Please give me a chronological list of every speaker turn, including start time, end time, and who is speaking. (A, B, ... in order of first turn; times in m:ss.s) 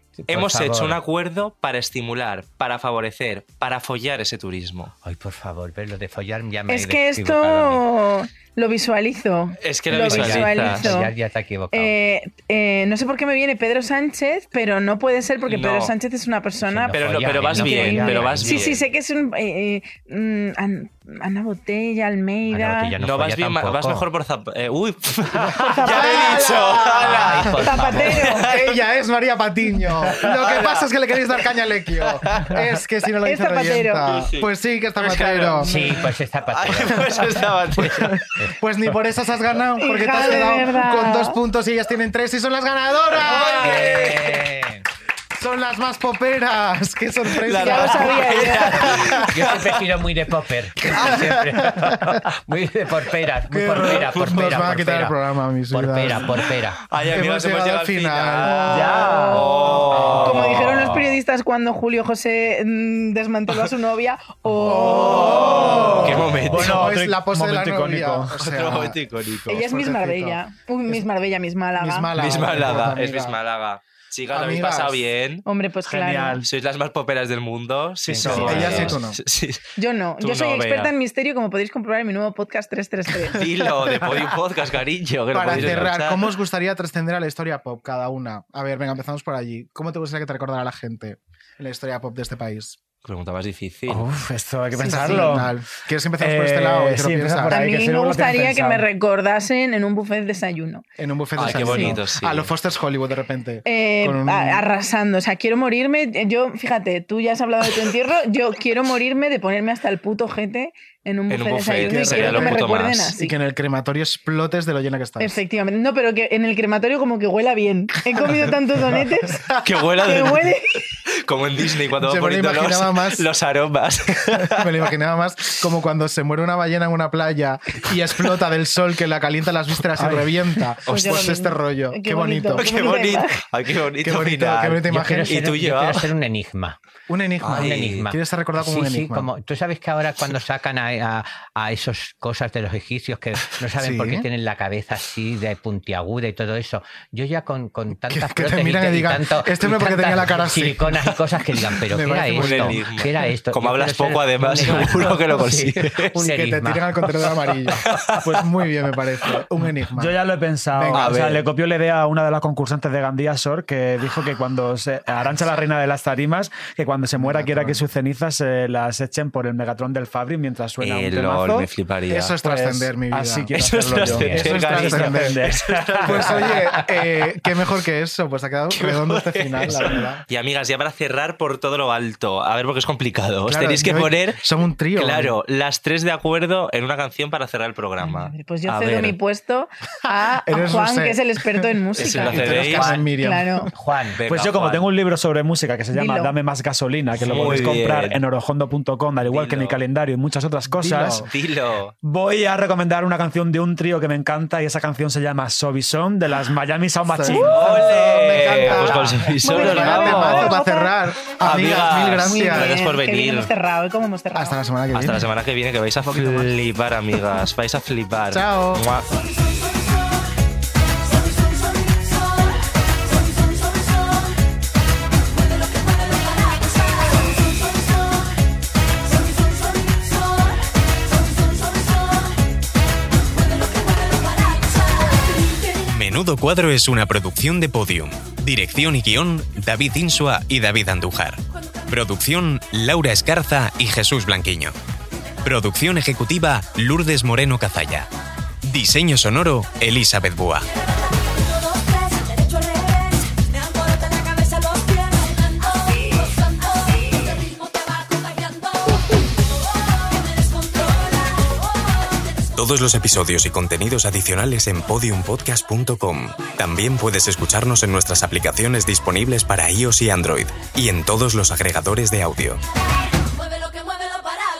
0:00.2-0:01.0 A
0:00.3-0:04.9 B
0:05.0-0:07.8 A
0:06.7-0:11.1 C
0:09.6-0:11.0 B
0:09.9-0:12.0 A
0:11.7-0:23.0 C
0:15.5-0:15.9 B
0:16.6-0:18.8 A
0:17.0-0:18.8 B
0:22.5-0:24.1 A
0:23.0-0:28.8 B
0:25.6-0:26.5 C
0:25.8-0:27.5 D
0:26.9-0:28.2 A
0:27.6-0:28.5 C
0:28.2-0:35.8 D
0:30.1-0:30.9 B
0:32.2-0:32.5 B
0:33.0-0:34.2 C
0:34.1-0:35.9 B
0:35.6-0:38.6 A
0:36.5-0:38.2 B
0:37.1-0:44.0 D
0:39.8-0:41.4 C
0:43.2-0:44.4 B
0:43.2-0:44.9 A
0:45.4-0:49.6 D
0:47.3-0:49.3 B
0:47.6-0:48.9 C
0:48.4-0:55.2 A
0:50.8-0:52.2 D
0:53.5-0:56.4 D
0:55.7-0:56.8 A
0:56.9-1:00.7 B
0:57.1-0:59.0 D
0:58.5-1:05.6 C
0:58.7-0:59.7 E
0:59.9-1:01.2 A
1:04.6-1:11.0 D
1:05.1-1:06.9 B
1:05.7-1:08.4 E
1:08.4-1:09.6 B
1:09.5-1:12.2 C
1:11.8-1:13.4 D
1:12.2-1:15.4 B
1:14.3-1:15.1 D
1:15.5-1:16.4 C
1:15.9-1:16.5 E
1:16.4-1:19.6 B
1:18.0-1:18.9 E
1:18.2-1:19.2 D
1:18.3-1:19.0 A
1:19.8-1:23.4 C
1:20.2-1:20.9 B
1:23.3-1:26.3 B
1:25.3-1:32.8 D
1:33.0-1:34.1 B
1:33.9-1:35.6 E
1:34.8-1:35.3 C
1:34.8-1:37.7 D
1:36.2-1:38.9 E
1:37.5-1:40.8 C
1:41.0-1:44.6 D
1:41.4-1:42.5 B
1:41.5-1:42.0 C
1:43.6-1:53.4 C
1:51.3-1:53.1 B
1:51.9-1:55.4 D
1:55.2-1:59.5 C
1:59.6-2:00.6 B
2:00.0-2:00.8 C
2:01.2-2:04.8 B
2:02.0-2:03.3 D
2:04.4-2:12.7 D
2:10.0-2:10.4 E
2:10.9-2:11.4 B
2:10.9-2:13.4 C
2:12.6-2:16.1 B
2:14.0-2:15.5 D
2:14.9-2:16.8 A
2:17.1-2:19.3 D
2:17.4-2:18.1 B
2:17.5-2:37.1 A
2:23.8-2:24.3 D
2:28.0-2:31.1 D
2:31.9-2:32.8 D
2:32.3-2:36.2 B
2:36.2-2:40.2 D
2:37.8-2:38.2 B
2:40.0-2:51.7 E
2:40.7-2:41.2 D
2:40.9-2:41.4 B
2:47.2-2:47.8 D
2:50.8-2:52.3 B
2:52.1-2:55.4 D
2:52.4-2:56.6 E
2:53.6-2:56.8 B
2:54.1-2:54.8 A
2:56.0-3:00.2 D
2:58.7-3:04.4 B
3:03.5-3:05.4 D
3:05.0-3:09.2 B
3:08.0-3:13.7 C
3:10.4-3:13.7 D
3:12.0-3:13.0 B
3:13.8-3:14.2 A
3:14.2-3:14.9 B
3:14.2-3:21.3 E
3:15.9-3:16.4 C
3:17.2-3:18.2 B
3:19.2-3:19.8 B
3:20.7-3:21.3 D
3:21.3-3:21.9 B
3:22.0-3:27.6 E
3:27.1-3:32.8 D
3:27.3-3:30.5 B
3:29.4-3:31.0 C
3:31.4-3:33.5 B
3:32.2-3:34.6 C
3:34.3-3:35.3 D
3:34.9-3:39.2 B
3:36.1-3:36.5 D
3:38.3-3:38.8 D
3:55.8-4:04.8 F
4:05.4-4:08.1 F
4:08.6-4:10.7 F
4:22.6-4:32.6 F